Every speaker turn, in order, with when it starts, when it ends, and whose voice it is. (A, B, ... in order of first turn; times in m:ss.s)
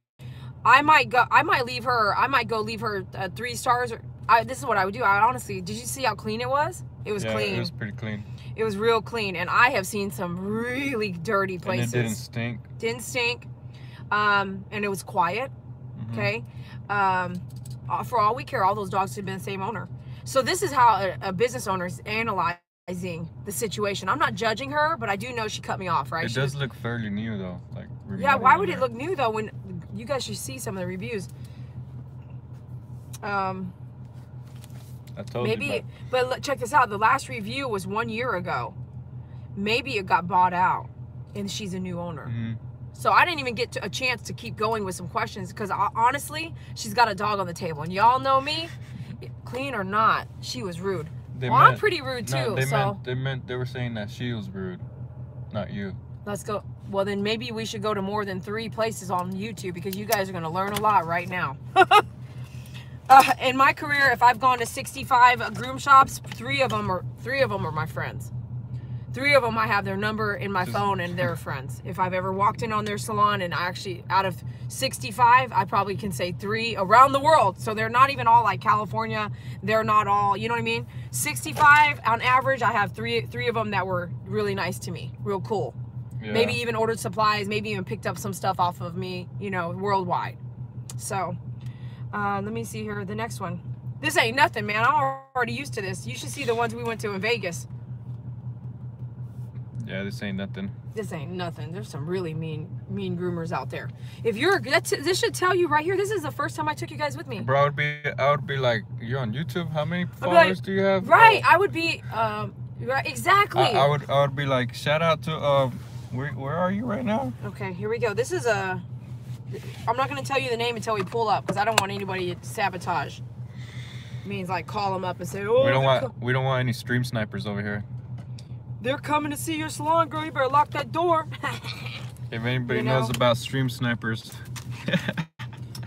0:00.6-0:07.7 A
0:07.2-0:08.3 B
0:08.5-0:12.2 A
0:11.6-0:12.7 B
0:12.8-0:13.5 A
0:14.1-0:15.5 A
0:16.0-0:16.3 B
0:16.1-0:26.6 A
0:26.2-0:28.9 B
0:28.2-0:31.3 A
0:33.2-0:33.7 A
0:35.1-0:35.8 B
0:35.4-0:38.8 A
0:39.5-0:42.3 A
0:42.2-0:42.6 B
0:42.9-0:53.0 A
0:51.3-0:54.8 B
0:55.5-0:56.0 B
0:56.2-1:02.0 A
1:03.1-1:08.3 A
1:09.1-1:25.8 A
1:26.2-1:26.6 B
1:26.3-1:30.4 A
1:31.0-1:31.4 A
1:32.1-1:37.7 A
1:39.8-1:40.7 B
1:40.9-1:47.5 A
1:47.4-1:51.4 B
1:50.2-1:53.9 A
1:53.5-1:57.4 B
1:57.4-1:58.8 A
1:59.5-2:03.2 A
2:04.2-2:06.1 A
2:05.6-2:07.8 B
2:08.8-2:12.0 A
2:12.3-2:15.3 B
2:12.7-2:13.1 A